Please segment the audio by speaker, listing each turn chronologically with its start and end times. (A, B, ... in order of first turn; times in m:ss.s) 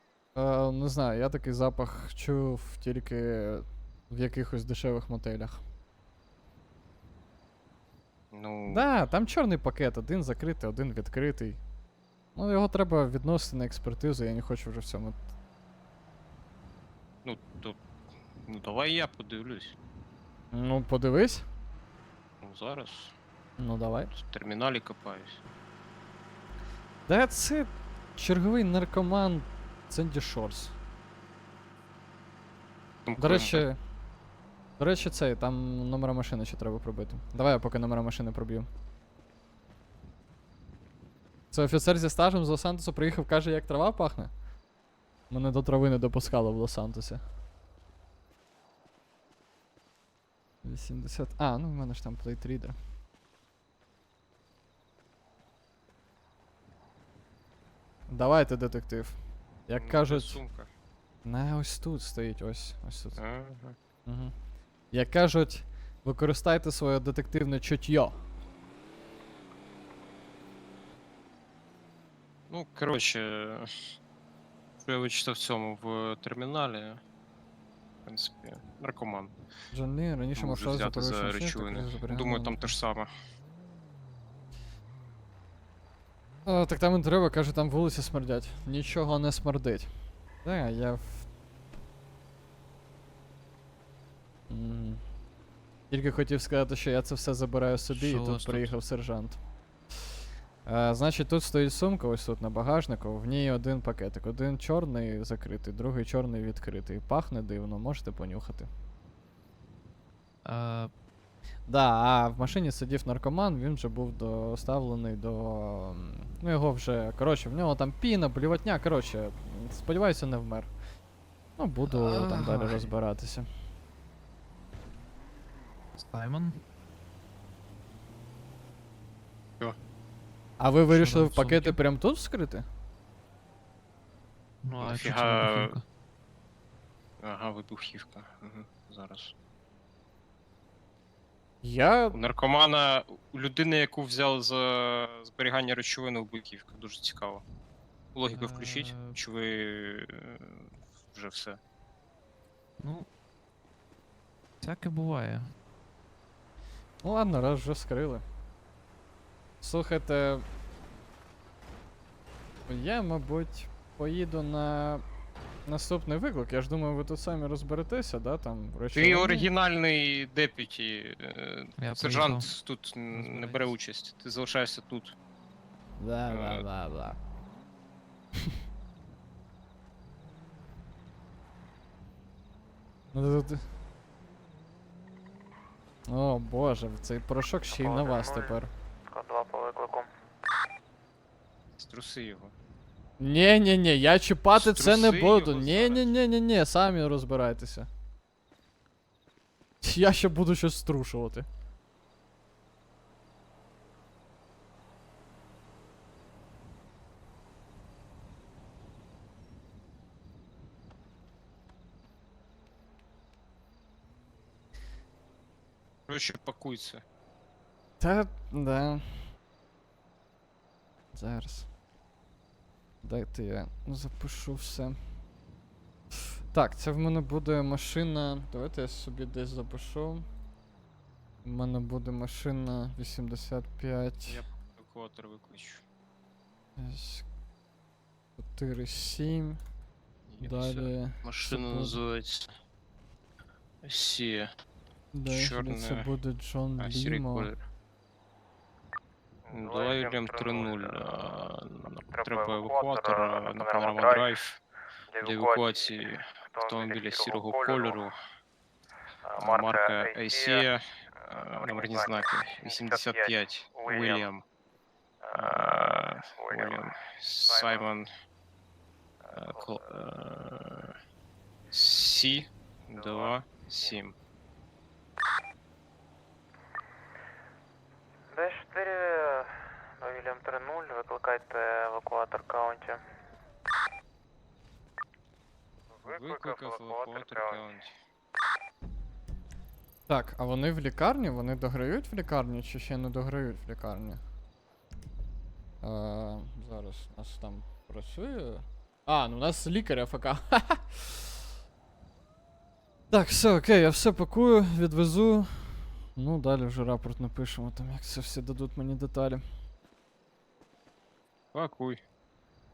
0:00.4-0:05.6 A
0:08.3-0:08.9 B
0:08.7-0:11.6 A
0:12.4-0:15.2 A
0:17.2-0:17.8 B
0:18.4-0:19.8 B
0:20.5-0:21.4 A
0:22.4-0:23.1 B
0:23.6-0:24.1 A
0:24.1-0:25.4 B
0:27.1-0:30.7 A
0:33.0-0:33.6 B
0:33.2-0:33.8 A
0:34.8-0:38.7 A
0:41.5-0:44.3 A
0:45.3-0:47.2 A
0:50.6-0:52.8 A
0:58.1-1:00.4 A
0:59.7-1:00.7 B
1:01.2-1:03.2 A
1:03.2-1:03.8 B
1:04.0-1:04.3 A
1:04.9-1:08.2 A
1:12.5-1:13.7 B
1:14.8-1:17.0 B
1:18.0-1:19.3 B
1:19.7-1:22.7 A
1:20.4-1:23.1 B
1:26.4-1:31.3 A
1:34.5-1:35.0 A
1:35.9-1:39.4 A
1:37.9-1:38.7 C
1:40.6-1:48.7 A
1:50.4-1:50.9 C
1:51.7-2:00.7 A
2:01.6-2:03.5 A
2:01.9-2:02.9 C
2:06.0-2:06.6 C
2:10.6-2:12.6 A
2:10.9-2:11.8 C
2:14.6-2:15.8 C
2:14.8-2:15.8 B
2:17.2-2:19.3 B
2:21.6-2:22.2 A
2:22.1-2:27.4 B
2:28.1-2:31.6 B
2:28.3-2:29.2 C
2:32.8-2:33.1 C
2:34.6-2:35.5 C
2:37.0-2:38.2 A
2:39.6-2:40.4 A
2:42.7-2:45.0 A
2:45.6-2:49.5 A
2:48.9-2:55.1 B
2:51.8-2:52.6 C
2:53.1-2:53.7 C
2:56.0-2:57.2 A
2:56.3-2:56.6 B
3:03.1-3:03.7 A
3:06.1-3:08.7 A
3:07.7-3:10.1 D
3:11.8-3:12.5 B
3:13.2-3:17.9 A
3:14.5-3:16.1 B
3:19.8-3:21.4 A
3:36.1-3:37.0 B
3:38.0-3:39.3 A
3:41.1-3:41.7 A
3:43.0-3:45.0 A
3:46.5-3:50.2 A
3:51.4-3:54.4 A
3:54.2-3:55.8 B
3:56.8-3:57.2 A
3:58.4-3:59.6 A
4:00.3-4:02.5 B
4:00.4-4:02.0 A
4:03.8-4:04.5 B
4:05.1-4:07.5 A
4:05.2-4:06.0 B
4:06.8-4:07.6 B
4:09.5-4:14.6 B
4:09.6-4:10.7 D
4:12.1-4:14.1 D
4:15.1-4:18.0 D
4:15.2-4:18.2 B
4:19.2-4:20.7 D
4:19.4-4:24.4 B
4:21.3-4:23.0 D
4:23.9-4:24.2 D
4:25.2-4:26.9 D
4:25.3-4:28.1 B
4:27.5-4:27.8 D
4:29.3-4:29.8 D
4:29.3-4:30.9 B
4:31.7-4:34.1 B
4:32.9-4:33.3 D
4:38.3-4:43.0 D
4:46.0-4:47.7 D
4:46.0-4:47.9 B
4:50.1-4:54.2 A
4:55.8-5:01.3 A
5:03.1-5:09.4 A
5:11.5-5:12.0 B